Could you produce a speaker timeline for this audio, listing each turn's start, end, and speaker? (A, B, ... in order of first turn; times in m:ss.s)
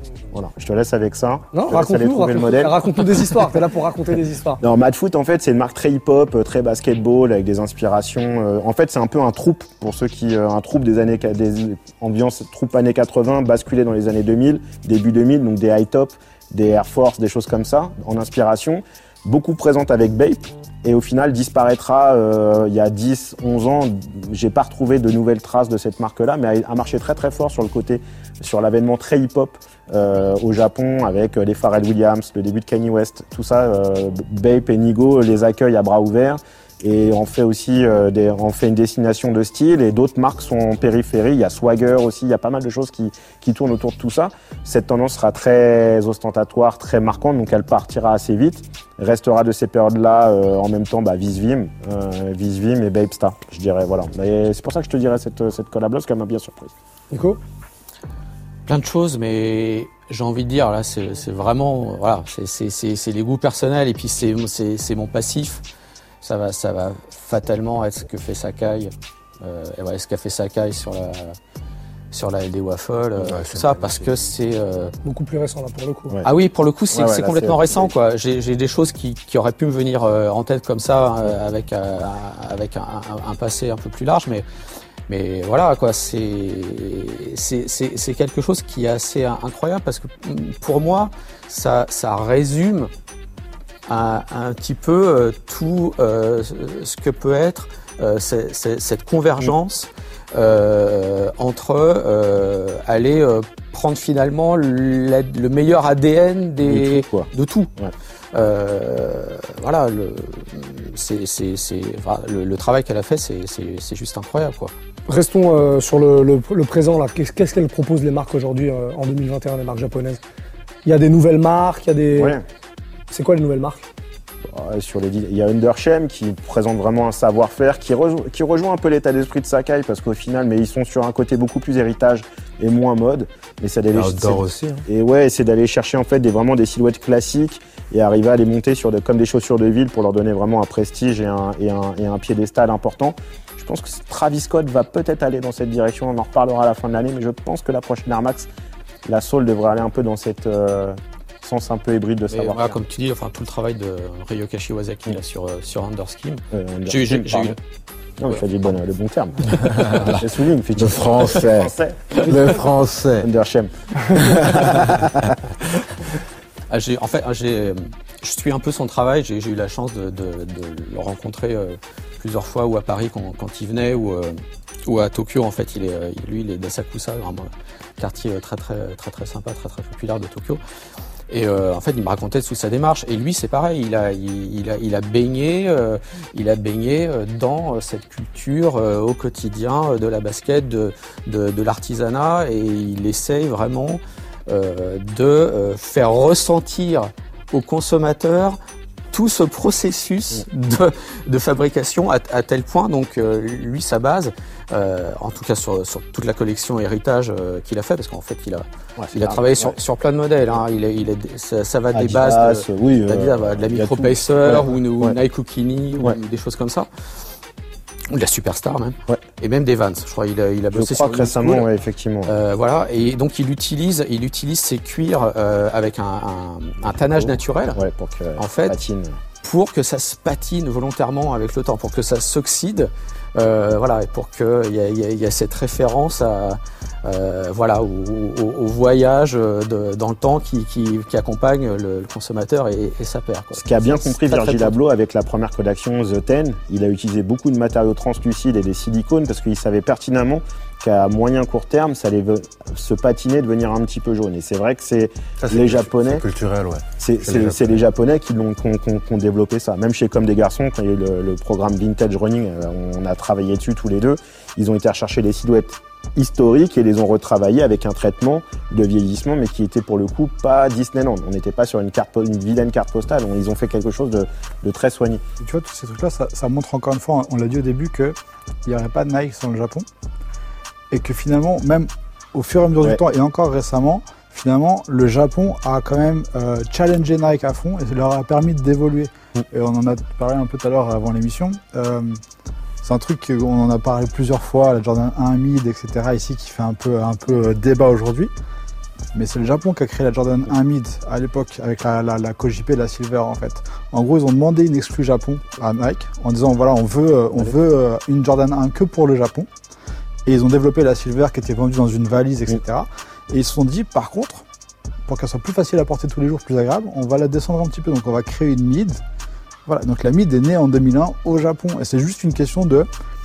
0:00.3-0:02.8 A
0:01.5-0:04.6 B
0:04.6-0:56.7 A
0:57.1-0:57.4 B
0:58.7-1:05.6 C
1:06.2-1:11.4 C
1:12.1-1:14.9 C
1:13.2-1:14.0 D
1:15.0-1:16.2 B
1:16.2-1:24.5 C
1:16.9-1:17.9 A
1:25.1-1:32.9 C
1:33.9-1:47.7 C
1:46.6-1:47.9 A
1:48.3-1:54.7 C
1:55.1-2:00.2 B
2:00.8-2:02.4 B
2:02.2-2:02.4 A
2:03.1-2:03.9 B
2:04.5-2:28.5 A
2:13.9-2:14.9 D
2:29.1-2:32.8 A
2:32.3-2:37.6 C
2:36.5-2:37.6 A
2:38.2-2:42.6 A
2:39.7-2:40.2 D
2:39.7-2:40.0 C
2:40.8-2:43.3 D
2:43.2-2:45.4 A
2:46.7-3:00.6 C
3:01.3-3:18.6 C
3:19.1-3:36.9 C
3:29.0-3:29.8 A
3:31.9-3:35.2 A
3:38.1-3:41.7 C
3:40.7-3:42.3 A
3:42.3-3:47.8 C
3:47.2-3:49.2 A
3:48.4-3:48.8 C
3:49.4-4:04.7 C
4:03.6-4:16.2 A
4:15.4-4:17.8 D
4:17.0-4:35.2 A
4:35.4-4:39.9 E
4:40.9-4:52.2 E
4:52.8-4:58.3 E
4:59.1-5:09.5 E
5:10.3-5:14.4 E
5:15.1-5:19.0 E
5:19.7-5:22.9 E